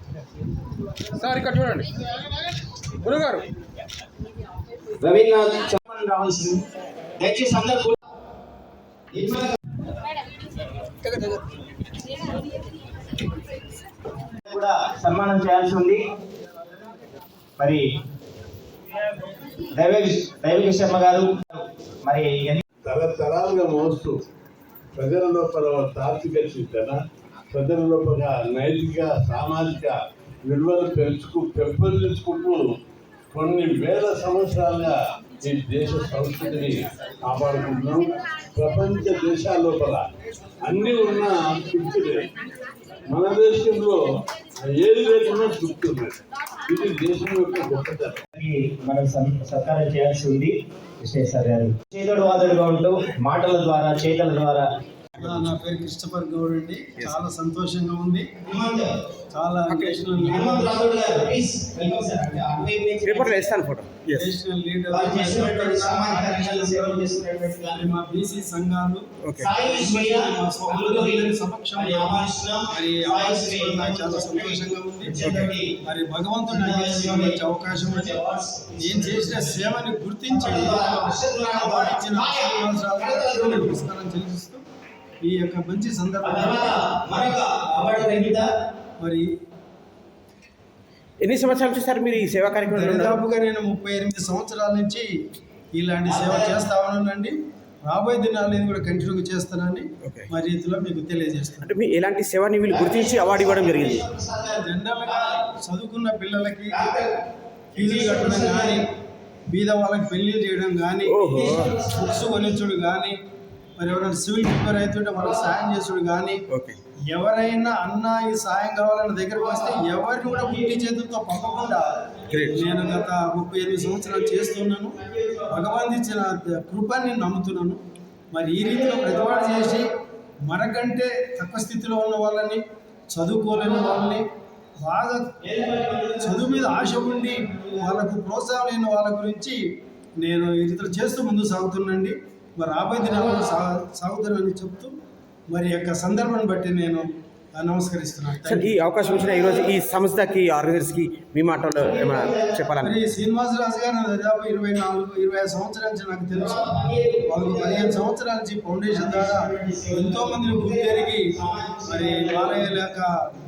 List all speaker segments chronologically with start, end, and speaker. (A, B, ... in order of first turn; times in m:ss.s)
0:01.2-0:01.9 A
0:03.0-0:03.4 A
0:05.0-0:06.6 B
0:07.2-0:08.0 B
0:09.1-0:09.6 B
0:14.4-0:16.0 B
0:17.6-0:17.9 B
0:19.7-0:22.6 B
0:22.8-0:24.2 C
0:25.0-0:27.0 C
0:27.5-0:32.6 C
0:33.3-0:40.0 C
0:40.6-0:42.3 C
0:43.1-0:44.0 C
0:44.6-0:48.2 C
0:48.4-0:54.7 B
0:55.2-0:55.5 A
0:55.2-0:58.3 D
0:57.0-0:57.3 A
0:58.4-0:58.9 B
0:59.3-1:00.8 D
0:59.7-1:00.3 A
1:00.2-1:03.4 B
1:03.0-1:04.3 A
1:04.2-1:07.1 D
1:04.9-1:07.8 B
1:07.7-1:18.2 D
1:09.2-1:09.5 A
1:09.4-1:15.8 B
1:16.5-1:23.7 B
1:18.8-1:24.6 D
1:25.2-1:26.8 D
1:26.2-1:28.5 B
1:29.0-1:29.3 D
1:31.2-1:33.2 A
1:32.6-1:35.1 D
1:35.8-1:41.7 D
1:36.0-1:36.6 B
1:41.6-1:44.1 A
1:42.7-1:45.4 B
1:44.6-1:46.9 D
1:46.7-1:47.1 B
1:47.7-1:48.8 B
1:47.8-1:48.9 D
1:49.5-1:51.2 D
1:51.0-1:51.8 A
1:51.3-1:52.7 B
1:51.8-1:53.2 D
1:53.8-1:56.4 D
1:55.1-1:55.8 B
1:56.5-1:56.8 A
1:57.1-2:02.0 D
1:59.3-2:05.8 B
2:02.3-2:02.6 A
2:02.5-2:05.0 D
2:05.5-2:07.8 D
2:08.3-2:09.8 D
2:08.6-2:09.8 B
2:10.5-2:14.2 D
2:13.6-2:14.1 B
2:14.8-2:15.3 D
2:15.4-2:18.1 B
2:16.2-2:19.6 D
2:20.2-2:24.9 D
2:23.0-2:23.6 B
2:25.5-2:29.2 D
2:28.4-2:33.0 A
2:29.0-2:29.7 B
2:31.8-2:32.7 B
2:32.8-2:36.7 D
2:36.3-2:38.0 B
2:37.3-2:43.1 D
2:38.9-2:42.7 B